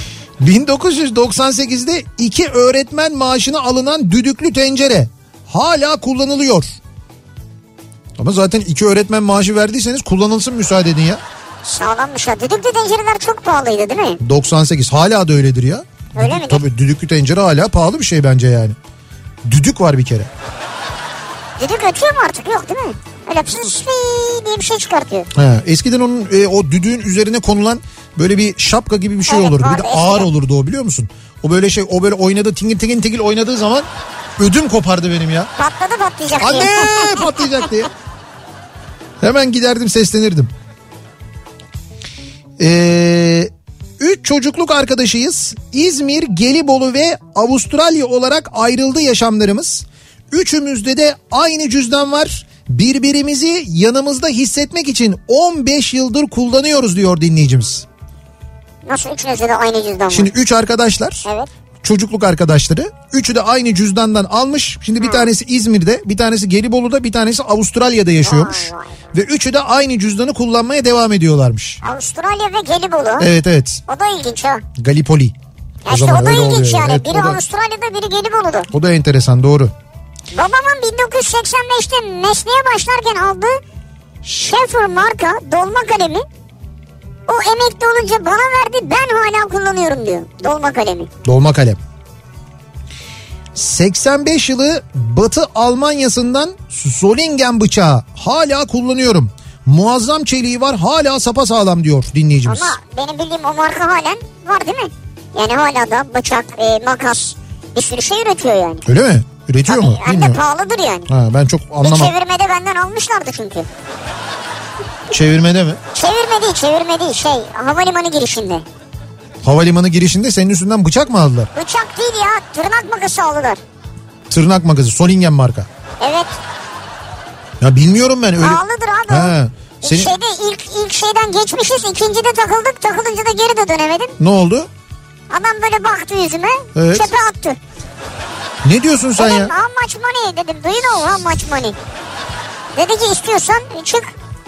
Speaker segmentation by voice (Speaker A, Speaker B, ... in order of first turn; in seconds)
Speaker A: 0.4-6.8, 8.2-11.2, 14.2-18.8, 19.4-20.3, 25.3-33.9, 34.4-35.5, 36.4-37.9, 39.2-40.5, 42.6-57.9, 60.1-61.2, 61.8-71.8, 73.2-73.8, 74.8-75.3, 75.9-77.4, 78.7-79.7, 91.2-91.8, 93.5-102.8, 108.9-110.4, 111.1-112.1, 115.1-115.8, 119.4-121.5, 124.3-125.7, 127.6-130.1, 134.2-134.7, 136.8-137.1, 138.6-139.5
Speaker B: 11.6-14.2, 16.2-16.6, 21.6-25.3, 29.3-30.3, 35.6-37.4, 58.9-60.3, 65.0-65.3, 68.2-68.9, 71.8-73.3, 73.9-74.7, 75.8-78.7, 80.3-83.6, 84.2-86.3, 87.3-91.1, 102.5-108.8, 109.7-111.1, 111.8-113.7, 115.9-118.7, 121.5-123.6, 126.0-126.3, 128.4-134.2, 135.3-137.6, 139.2-141.8, 142.8-144.1